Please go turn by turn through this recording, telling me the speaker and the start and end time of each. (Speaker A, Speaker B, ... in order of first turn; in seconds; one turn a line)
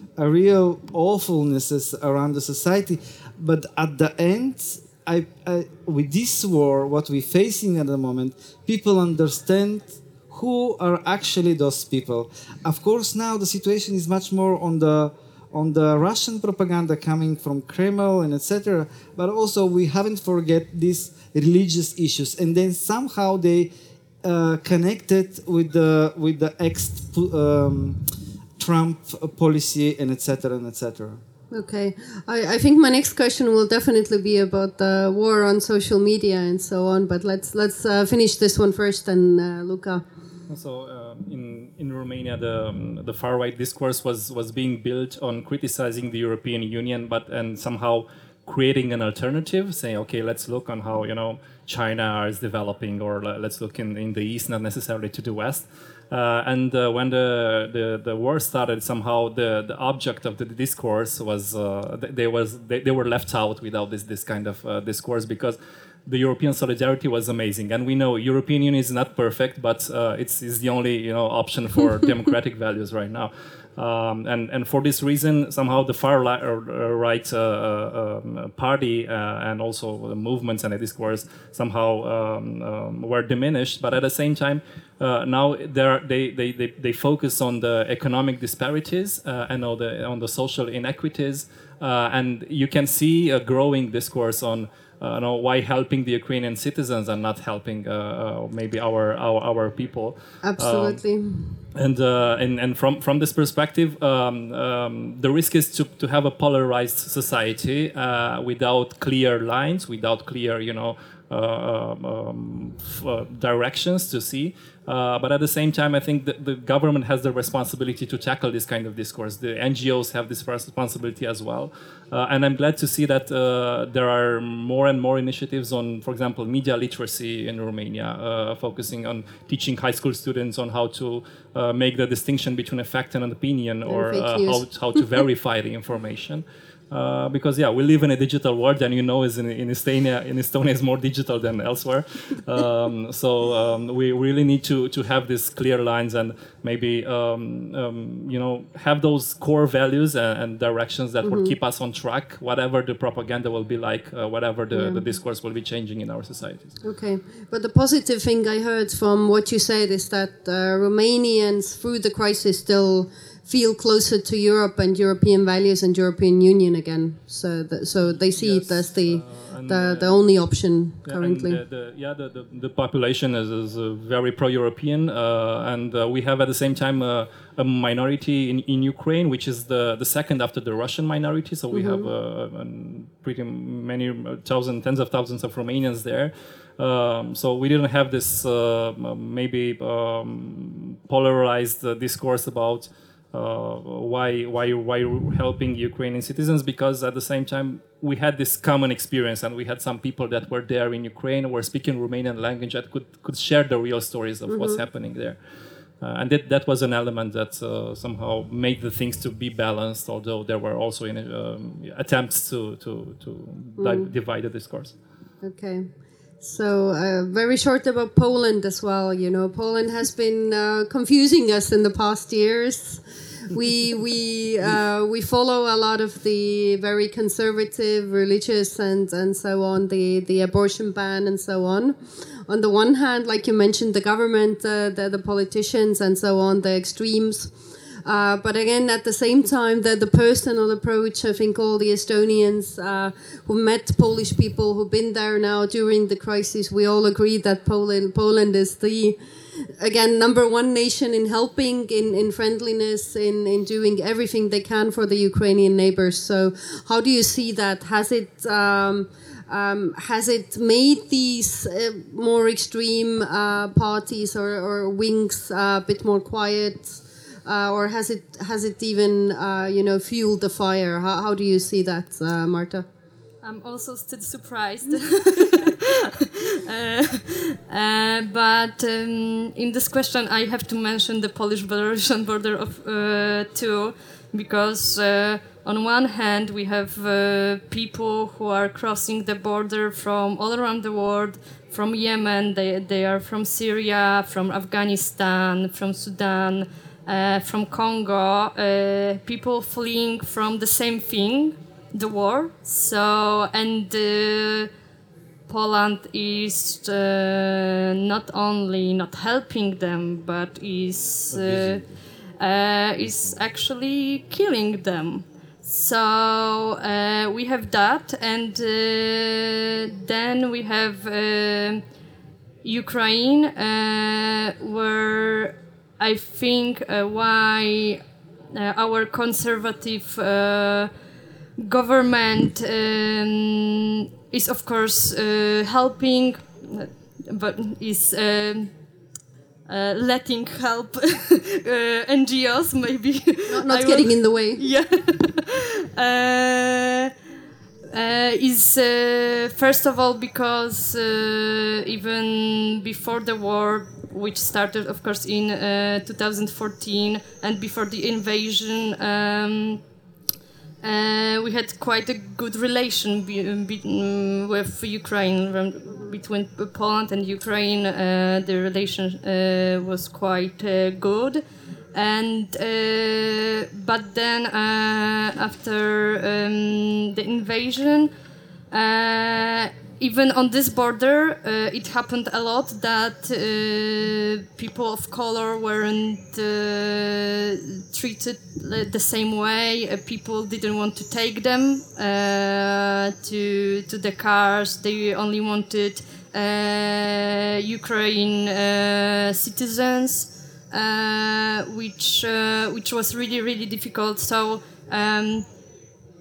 Speaker A: 0.2-23.7
Speaker A: 24.2-28.0
Speaker A: 28.6-31.2
Speaker B: 31.5-40.0
Speaker C: 40.5-101.0
Speaker B: 100.4-101.6
Speaker C: 101.8-156.7
Speaker B: 133.8-135.2
Speaker B: 151.2-151.5
Speaker B: 154.7-155.1
Speaker B: 156.8-171.6
Speaker C: 168.1-170.2
Speaker C: 171.1-205.4
Speaker B: 181.7-182.1
Speaker B: 204.5-204.8
Speaker C: 206.0-214.9
Speaker B: 213.8-214.1
Speaker B: 215.4-215.9
Speaker B: 216.4-237.5
Speaker B: 238.0-249.2
Speaker B: 249.8-272.9
Speaker D: 273.4-304.7
Speaker D: 305.5-311.8
Speaker C: 311.3-311.8
Speaker D: 312.4-321.8
Speaker D: 322.6-330.9
Speaker D: 331.6-338.7
Speaker D: 339.7-347.1
Speaker B: 343.5-344.6
Speaker D: 347.9-359.8
Speaker D: 360.8-371.4
Speaker D: 371.9-378.1
Speaker D: 378.7-405.4